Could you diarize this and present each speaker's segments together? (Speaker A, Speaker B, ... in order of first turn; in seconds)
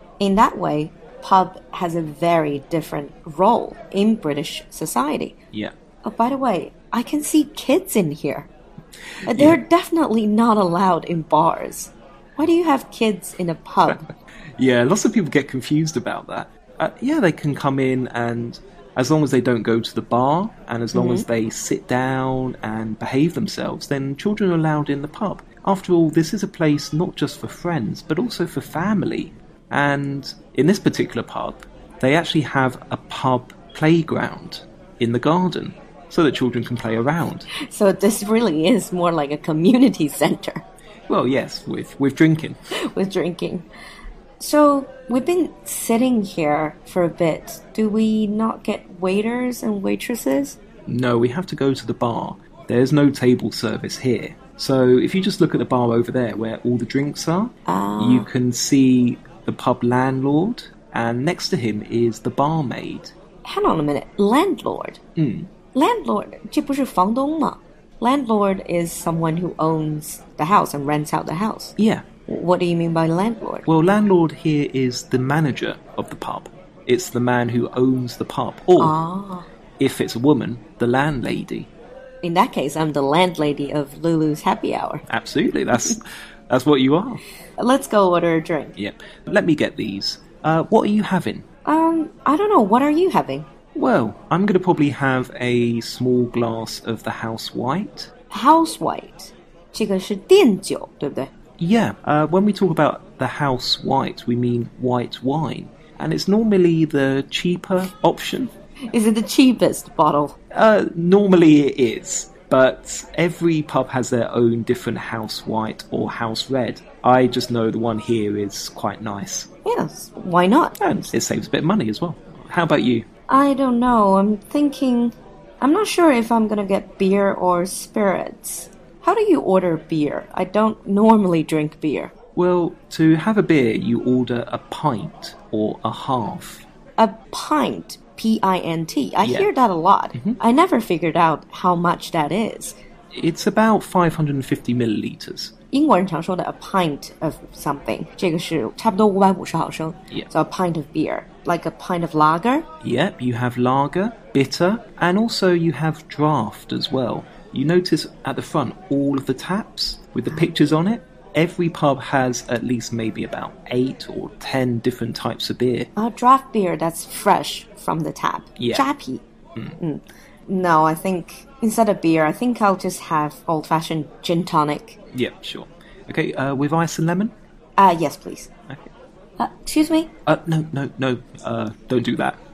Speaker A: 0.2-5.3, 6.0-8.5, 9.2-14.1, 20.9-21.2, 37.5-40.6, 42.8-43.6, 44.4-50.6, 57.7-58.3, 63.4-65.0, 65.7-71.8, 72.3-73.7, 78.8-79.5, 82.2-85.0, 87.6-88.7, 91.6-93.5, 98.3-101.3, 108.9-110.3, 119.6-121.0, 123.3-132.1, 137.0-142.8, 145.7-152.7, 165.9-169.2, 169.8-175.0, 177.8-178.5, 179.4-180.1
Speaker B: 9.3-9.6, 14.6-37.5, 41.1-42.6, 50.9-63.1, 65.2-65.5, 71.8-72.0, 73.7-78.9, 79.8-81.7, 85.1-87.2, 88.8-91.4, 93.7-98.1, 101.6-108.5, 110.5-119.5, 120.8-123.1, 132.3-136.7, 139.2-139.5, 143.1-145.5, 152.8-165.9, 168.6-168.8, 175.1-177.3, 180.2-182.4